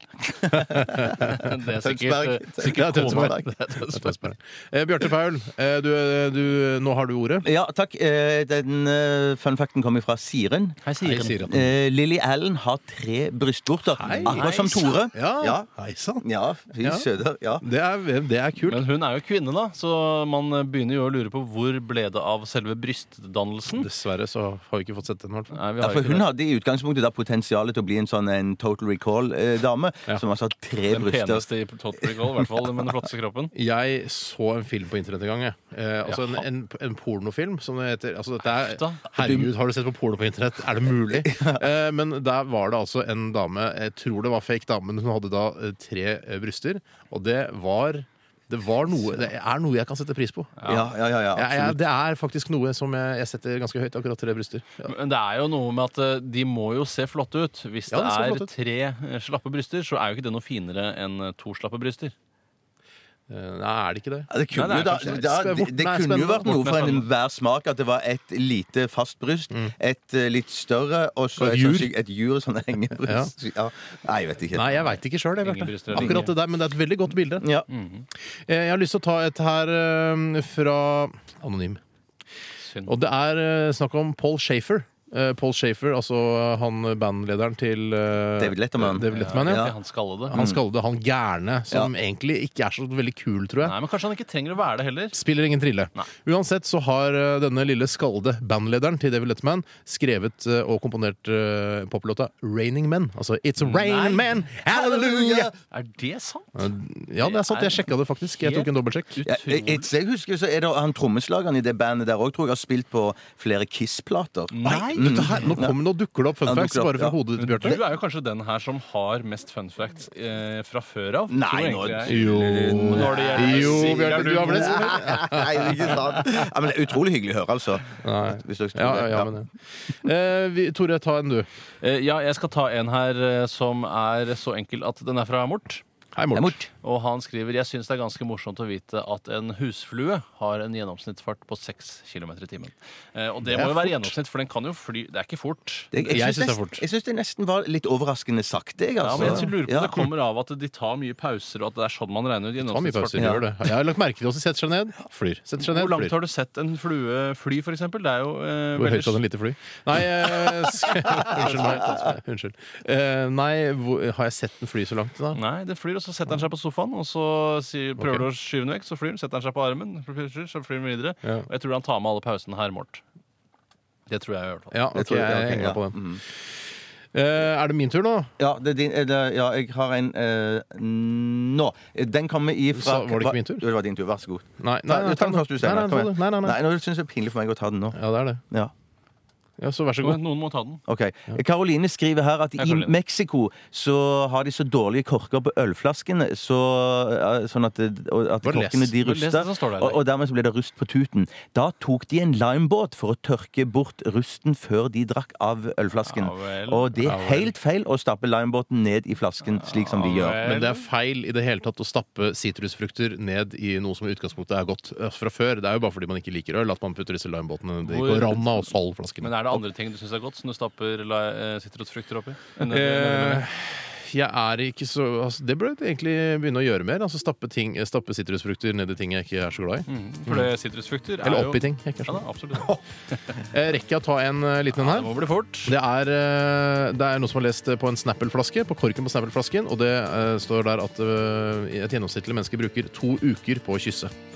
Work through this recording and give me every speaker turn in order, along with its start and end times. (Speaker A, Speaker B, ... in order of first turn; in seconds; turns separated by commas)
Speaker A: 0.2-3.6, Speaker B: 0.5-1.4, Speaker C: 1.1-4.2, Speaker B: 2.7-7.5, Speaker A: 7.4-10.8, Speaker C: 10.8-11.5, Speaker B: 11.0-11.7, Speaker A: 11.5-15.7, Speaker B: 13.9-14.5, Speaker C: 14.2-15.0, Speaker B: 15.1-16.2, Speaker A: 16.2-17.6, Speaker B: 16.8-17.1, Speaker B: 17.6-18.9, Speaker C: 18.6-23.9, Speaker B: 23.7-25.6, Speaker C: 25.5-26.3, Speaker A: 25.8-31.5, Speaker C: 30.9-33.5, Speaker B: 33.5-50.6, Speaker C: 36.0-36.5, Speaker C: 38.5-39.1, Speaker A: 39.2-39.5, Speaker A: 41.1-41.7, Speaker A: 49.0-49.3, Speaker C: 50.6-50.9, Speaker A: 50.6-51.8, Speaker B: 51.3-54.9, Speaker C: 54.8-62.1, Speaker B: 57.9-58.5, Speaker B: 63.3-66.7, Speaker A: 64.3-74.8, Speaker C: 64.5-65.2, Speaker C: 66.5-67.1, Speaker B: 71.4-71.9, Speaker B: 73.0-73.3, Speaker B: 74.5-77.5, Speaker C: 75.4-76.3, Speaker A: 75.9-76.2, Speaker A: 77.4-77.7, Speaker C: 77.7-78.1, Speaker B: 78.5-81.8, Speaker C: 82.6-83.0, Speaker B: 82.9-93.8, Speaker A: 88.4-89.8, Speaker C: 89.1-90.3, Speaker A: 90.3-90.6, Speaker C: 93.6-95.2, Speaker B: 95.1-105.5, Speaker C: 103.6-104.5, Speaker A: 104.7-105.6, Speaker C: 105.7-106.7, Speaker B: 106.6-109.2, Speaker C: 107.2-109.9, Speaker A: 109.3-115.8, Speaker C: 114.5-115.6, Speaker B: 114.7-117.8, Speaker A: 116.4-117.8, Speaker C: 117.4-124.9, Speaker A: 121.3-129.4, Speaker B: 122.1-126.3, Speaker B: 128.0-131.5, Speaker C: 131.8-135.8, Speaker B: 136.2-136.6, Speaker A: 136.3-136.7, Speaker C: 136.8-145.9, Speaker B: 143.4-144.2, Speaker A: 145.9-150.1, Speaker B: 146.0-146.8, Speaker C: 149.0-153.4, Speaker B: 149.1-149.5, Speaker B: 152.6-156.2, Speaker A: 153.2-153.4, Speaker C: 155.6-159.2, Speaker B: 158.8-165.4, Speaker C: 165.3-173.0, Speaker B: 168.0-168.3, Speaker C: 174.1-174.7, Speaker B: 174.7-175.9, Speaker A: 174.9-176.2, Speaker B: 177.1-178.3, Speaker A: 178.4-188.0, Speaker B: 182.7-183.7, Speaker B: 184.6-186.6, Speaker B: 187.9-188.4, Speaker B: 189.6-190.2, Speaker C: 190.0-190.8, Speaker A: 190.9-210.4, Speaker C: 192.6-192.9, Speaker B: 198.4-198.9, Speaker C: 199.0-200.0, Speaker C: 205.9-206.9, Speaker B: 207.0-207.5, Speaker C: 209.6-210.8, Speaker B: 210.0-219.6, Speaker C: 217.8-218.7, Speaker C: 219.2-223.4, Speaker B: 222.6-230.5, Speaker C: 229.9-232.8, Speaker B: 231.2-232.8, Speaker B: 233.3-235.1, Speaker C: 234.7-235.8, Speaker B: 235.7-244.1